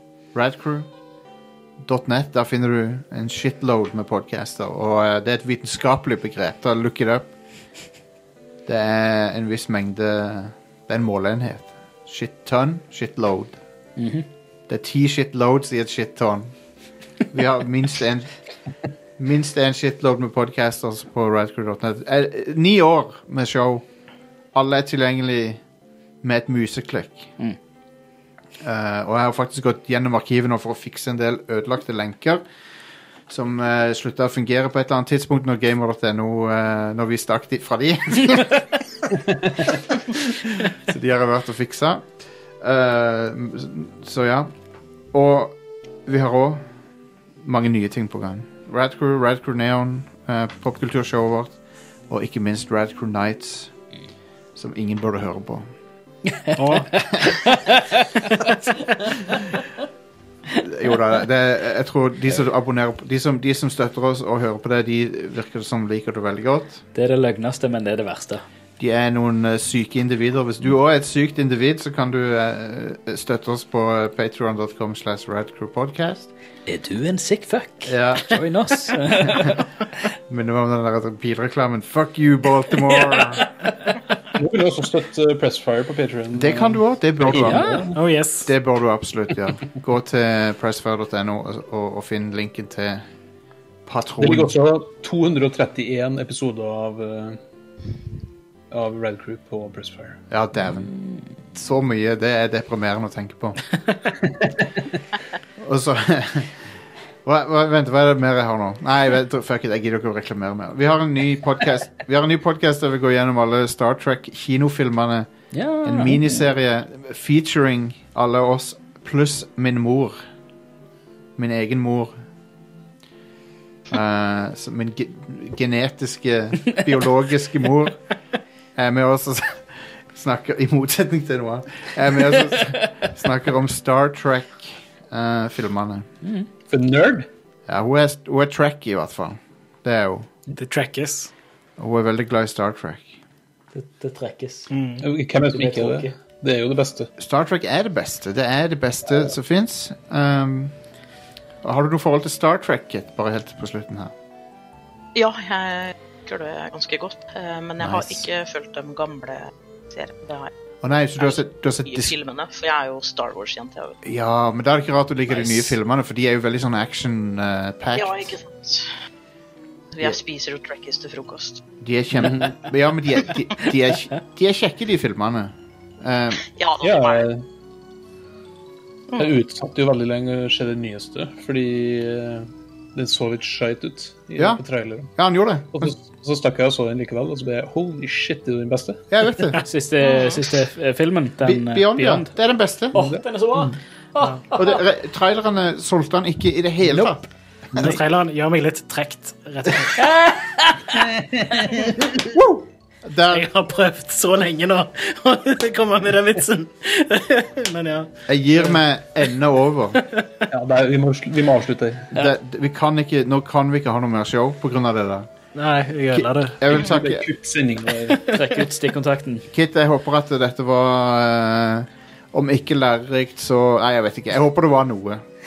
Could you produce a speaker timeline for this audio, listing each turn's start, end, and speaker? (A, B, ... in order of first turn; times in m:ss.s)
0:00.3-0:00.9 A
0:01.8-0:07.3 A
0:08.6-0:13.6 A
0:14.0-0:14.2 B
0:14.7-0:16.5 A
0:17.3-0:18.3 A
0:19.2-0:23.8 A
0:24.5-0:25.6 A
0:26.2-0:27.3 A
0:28.6-0:32.4 A
0:33.3-0:38.6 A
0:40.1-0:42.1 A
0:42.6-0:44.5 A
0:45.1-0:46.6 A
0:47.4-0:51.6 A
0:52.1-0:53.7 A
0:54.6-0:55.7 A
0:56.3-0:58.5 B
0:56.6-0:56.9 C
0:59.0-0:59.6 B
1:00.5-1:06.8 A
1:06.9-1:08.4 B
1:08.8-1:16.3 A
1:16.6-1:19.8 B
1:17.8-1:18.4 A
1:19.3-1:19.5 A
1:20.3-1:23.5 A
1:22.8-1:23.5 B
1:24.3-1:28.0 D
1:26.3-1:27.8 A
1:27.3-1:27.9 B
1:27.9-1:28.5 C
1:28.4-1:33.0 A
1:33.8-1:34.5 A
1:34.2-1:37.4 D
1:38.7-1:40.2 D
1:40.3-1:40.9 A
1:41.5-1:43.6 A
1:44.2-1:44.7 D
1:45.6-1:46.6 A
1:47.2-1:55.3 A
1:55.5-1:56.5 B
1:55.8-2:00.2 A
2:01.4-2:02.1 A
2:03.9-2:08.0 A
2:08.7-2:16.0 A
2:16.2-2:16.5 B
2:16.6-2:17.3 D
2:17.7-2:20.3 A
2:20.5-2:21.3 C
2:21.8-2:23.2 A
2:23.7-2:24.7 B
2:24.7-2:25.0 C
2:25.0-2:27.1 D
2:25.5-2:26.1 B
2:27.2-2:30.7 A
2:31.6-2:34.1 A
2:35.1-2:40.5 E
2:37.8-2:38.2 A
2:40.8-2:42.1 A
2:41.2-2:44.0 E
2:44.0-2:48.3 A
2:45.3-2:45.7 B
2:47.9-2:48.9 E
2:49.9-2:51.6 E
2:51.8-2:56.4 A
2:52.2-2:52.5 D
2:56.5-2:57.3 E
2:56.8-2:57.4 D
2:59.1-3:05.1 D
3:05.1-3:05.9 A
3:05.7-3:09.0 D
3:09.1-3:09.6 A
3:09.6-3:12.3 B
3:10.1-3:10.4 E
3:11.4-3:13.0 A
3:12.9-3:14.8 B
3:12.9-3:13.2 D
3:14.5-3:17.2 A
3:17.7-3:18.0 D
3:17.8-3:20.0 C
3:19.9-3:21.1 B
3:21.2-3:22.6 D
3:23.0-3:23.5 A
3:23.3-3:28.1 C
3:28.3-3:30.0 A
3:30.2-3:30.5 C
3:30.5-3:32.2 D
3:32.1-3:35.3 A
3:35.5-3:36.7 C
3:36.1-3:37.2 A
3:36.7-3:38.4 D
3:38.2-3:39.5 B
3:39.5-3:45.3 A